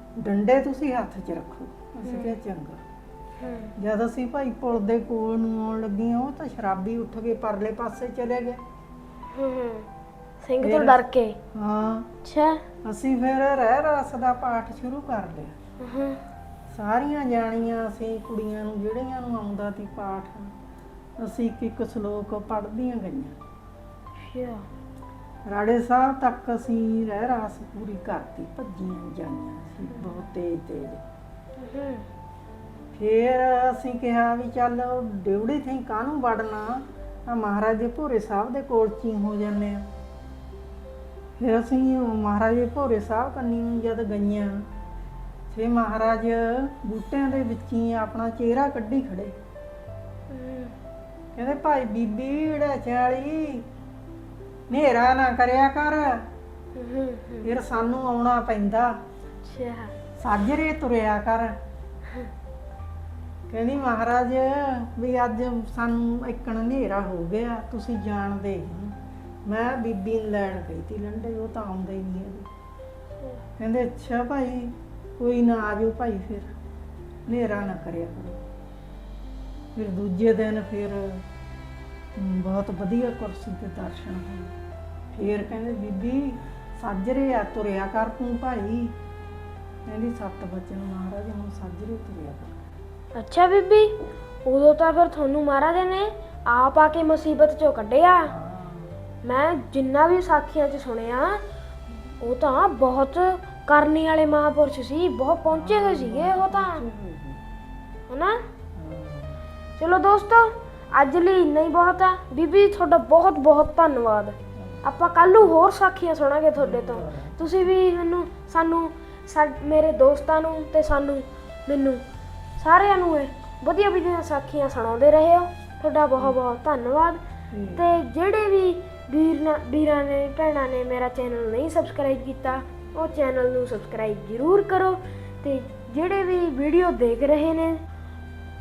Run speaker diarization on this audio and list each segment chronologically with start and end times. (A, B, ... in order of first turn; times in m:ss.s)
0:00.2-0:02.8 A
0:02.0-0:02.4 B
0:03.4-0:03.7 B
0:03.8-0:08.6 A
0:09.3-0:09.9 B
0:10.4-0:11.4 B
0:10.6-0:11.0 A
0:11.5-0:12.1 A
0:12.2-0:12.6 B
0:12.8-0:15.5 A
0:15.8-0:16.2 B
0:16.7-0:20.5 A
0:21.2-0:23.3 A
0:24.2-0:24.6 B
0:25.4-0:31.0 A
0:30.0-0:30.2 B
0:31.6-0:32.0 B
0:33.0-0:39.8 A
0:41.4-0:44.7 A
0:45.5-0:49.3 A
0:50.3-0:50.7 B
0:51.4-0:53.6 A
0:54.7-0:56.2 A
0:56.8-0:57.5 B
0:57.4-0:58.9 A
0:59.4-0:59.9 B
1:00.2-1:01.5 A
1:03.5-1:08.9 A
1:09.4-1:12.5 A
1:13.6-1:16.5 A
1:17.3-1:18.4 A
1:19.7-1:21.2 A
1:22.2-1:24.5 A
1:25.1-1:28.9 A
1:29.9-1:32.5 A
1:33.2-1:38.3 B
1:38.2-1:38.9 A
1:39.2-1:41.4 B
1:42.2-1:46.8 B
1:45.5-1:47.4 A
1:48.1-1:48.4 B
1:48.8-1:49.4 A
1:49.8-2:02.0 B
1:54.6-1:54.8 A
1:56.6-1:57.7 A
2:02.6-2:07.2 B
2:07.5-2:07.9 A
2:07.8-2:17.8 B